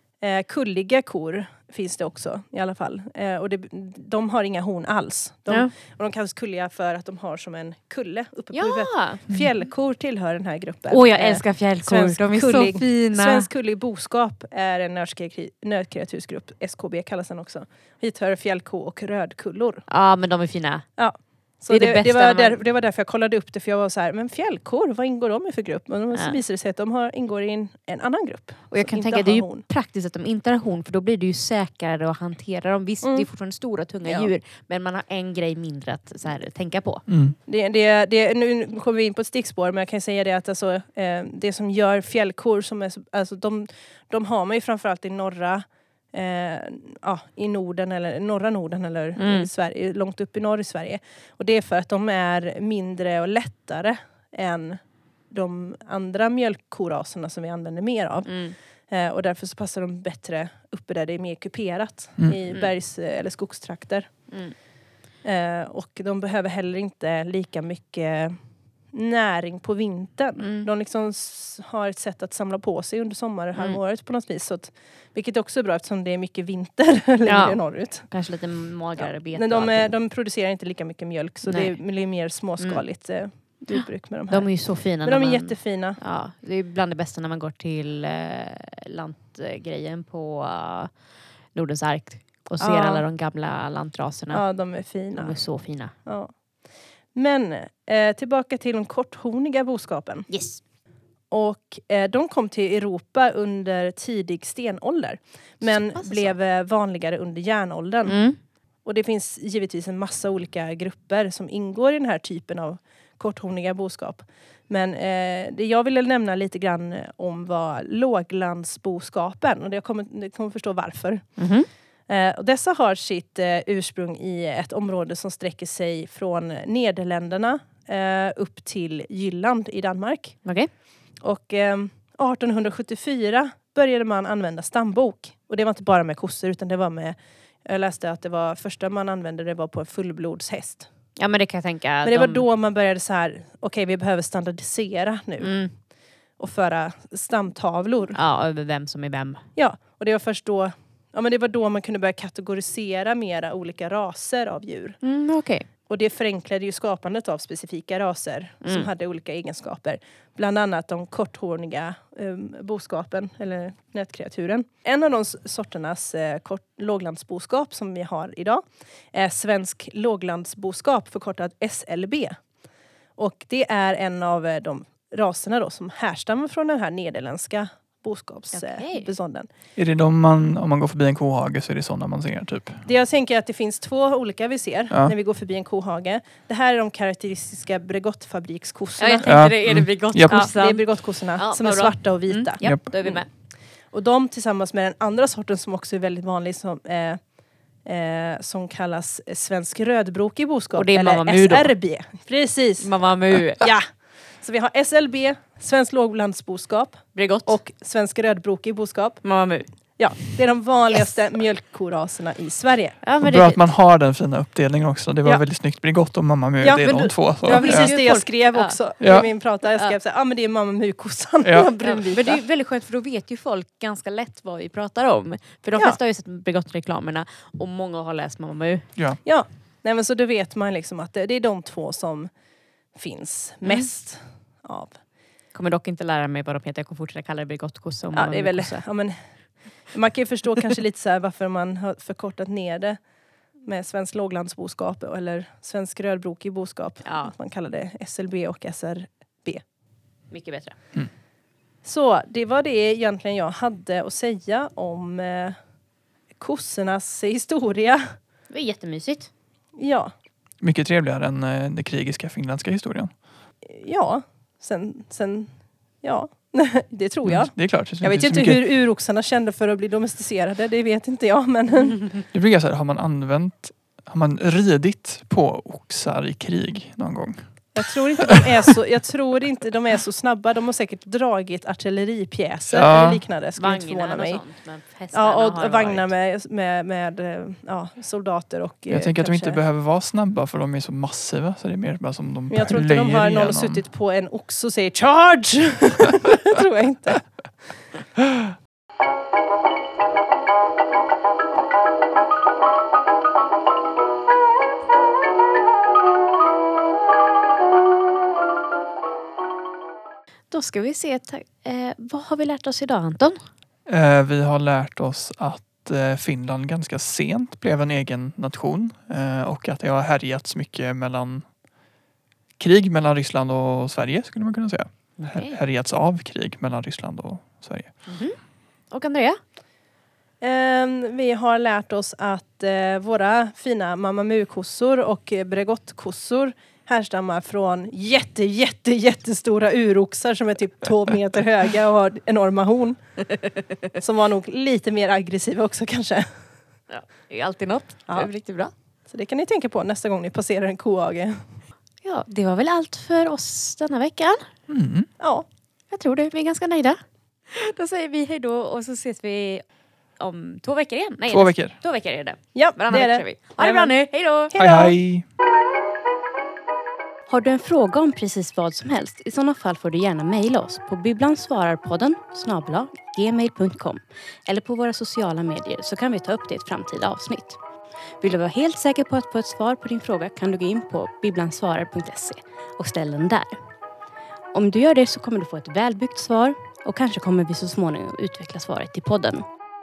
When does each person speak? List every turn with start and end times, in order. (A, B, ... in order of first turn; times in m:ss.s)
0:00.2-0:19.8 A
0:08.5-0:09.4 B
0:10.9-0:13.5 B
0:19.9-0:21.0 B
0:21.0-0:29.6 A
0:21.7-0:22.6 B
0:26.1-0:26.4 B
0:28.7-0:37.0 B
0:34.0-0:34.3 A
0:37.1-0:37.4 C
0:37.4-1:04.6 A
0:49.2-0:49.5 B
0:58.2-0:58.6 B
1:04.3-1:04.6 B
1:05.2-1:08.4 A
1:08.9-1:18.1 A
1:10.4-1:10.7 B
1:17.2-1:19.9 B
1:19.0-1:26.0 A
1:21.4-1:35.9 B
1:32.6-1:33.0 A
1:34.3-1:35.4 A
1:35.9-1:36.5 A
1:37.1-1:40.3 A
1:40.3-1:40.6 B
1:41.3-1:48.3 A
1:45.6-1:46.3 B
1:48.0-1:48.4 B
1:48.8-2:20.9 A
2:01.4-2:01.7 B
2:10.4-2:10.7 B
2:21.2-2:22.4 B
2:22.0-2:28.2 A
2:25.4-2:25.7 B
2:28.1-2:29.4 B
2:29.5-2:35.0 A
2:35.0-2:35.7 B
2:35.8-2:52.4 A
2:38.6-2:38.9 B
2:53.2-2:59.5 A
2:58.5-2:59.1 B
2:59.8-3:02.8 C
3:02.8-3:09.3 A
3:09.0-3:13.3 B
3:09.2-3:10.5 C
3:10.2-3:17.2 A
3:12.6-3:12.9 C
3:17.8-3:23.0 A
3:20.7-3:21.9 B
3:22.8-3:23.7 B
3:23.5-3:33.0 A
3:27.1-3:27.6 B
3:29.2-3:30.0 B
3:33.0-3:33.7 B
3:33.2-3:38.2 C
3:36.6-3:42.4 A
3:36.8-3:39.9 B
3:39.0-3:39.3 C
3:41.4-3:41.7 C
3:41.8-3:48.9 B
3:49.2-3:52.3 A
3:52.9-3:55.0 A
3:55.5-3:59.0 B
3:58.1-4:03.0 A
4:03.6-4:09.6 A
4:07.0-4:07.3 B
4:10.3-4:10.8 B
4:11.8-4:15.6 A
4:16.4-4:18.1 A
4:18.5-4:19.3 B
4:19.8-4:20.1 A
4:20.6-4:23.1 C
4:23.6-4:32.1 A
4:27.2-4:28.6 C
4:32.3-4:37.8 C
4:37.7-4:44.4 A
4:42.7-4:43.2 C
4:43.6-4:46.1 B
4:45.1-4:49.6 A
4:48.9-4:53.8 C
4:52.5-4:57.7 A
5:10.5-5:13.4 B
5:13.9-5:21.5 C
5:22.6-5:28.0 C
5:25.2-5:25.6 B
5:28.0-5:28.4 B
5:28.9-5:29.4 B
5:30.4-5:43.4 A
5:43.9-5:46.5 A
5:46.9-5:48.7 B
5:48.1-5:48.3 A
5:49.0-5:51.5 A
5:52.0-5:54.5 B
5:54.7-5:55.1 C
5:55.2-5:55.4 A
5:55.9-5:57.0 B
5:57.5-5:59.6 B
6:00.2-6:04.5 B
6:01.3-6:01.8 C
6:02.5-6:04.0 A
6:04.5-6:04.9 A
6:04.6-6:05.2 C
6:07.3-6:17.6 B
6:18.2-6:23.6 B
6:24.5-6:29.4 B